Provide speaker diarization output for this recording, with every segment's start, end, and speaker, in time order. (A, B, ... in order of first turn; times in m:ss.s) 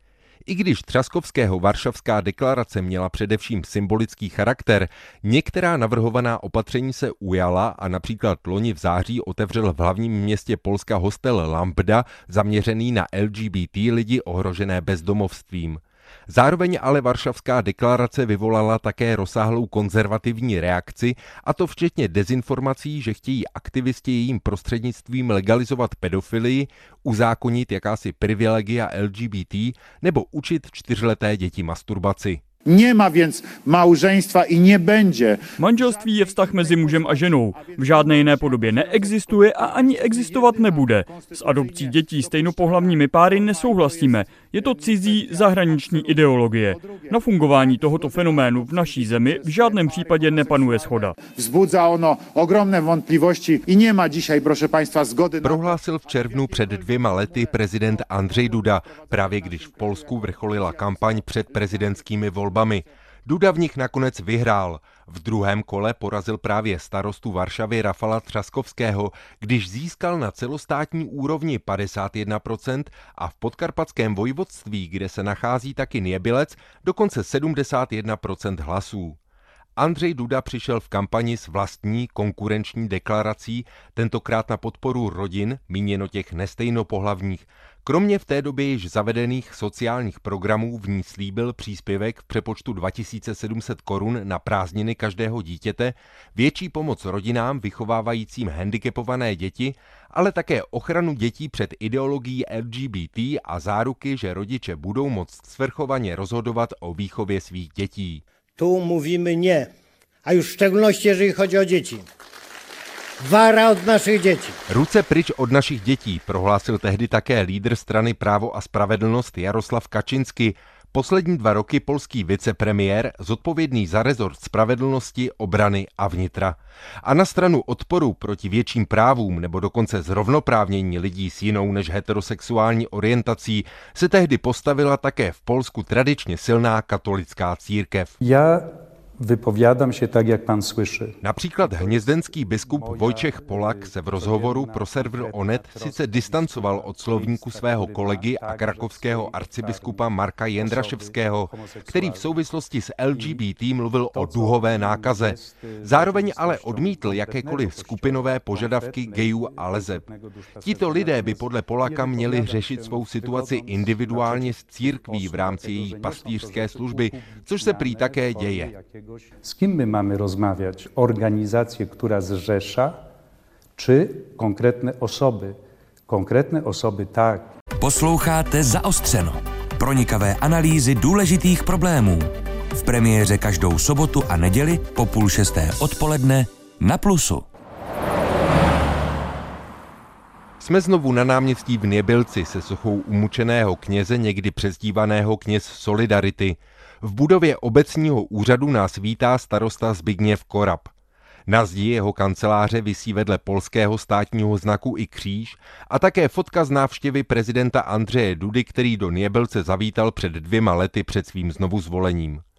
0:00.4-0:32.4 A
0:32.7-0:35.5 B
0:35.6-0:51.1 C
0:51.2-0:55.6 B
0:55.4-1:19.2 A
1:19.8-1:48.2 A
1:48.6-1:49.7 D
1:50.2-1:52.1 D
1:53.2-1:54.6 D
1:54.7-2:18.2 A
2:18.2-2:32.4 E
2:21.2-2:40.1 A
2:33.1-2:33.4 E
2:34.1-2:53.0 E
2:40.6-2:48.7 A
2:53.8-2:55.6 E
2:56.1-2:57.5 E
2:57.8-3:07.4 F
3:10.6-3:20.9 A
3:21.5-3:32.4 A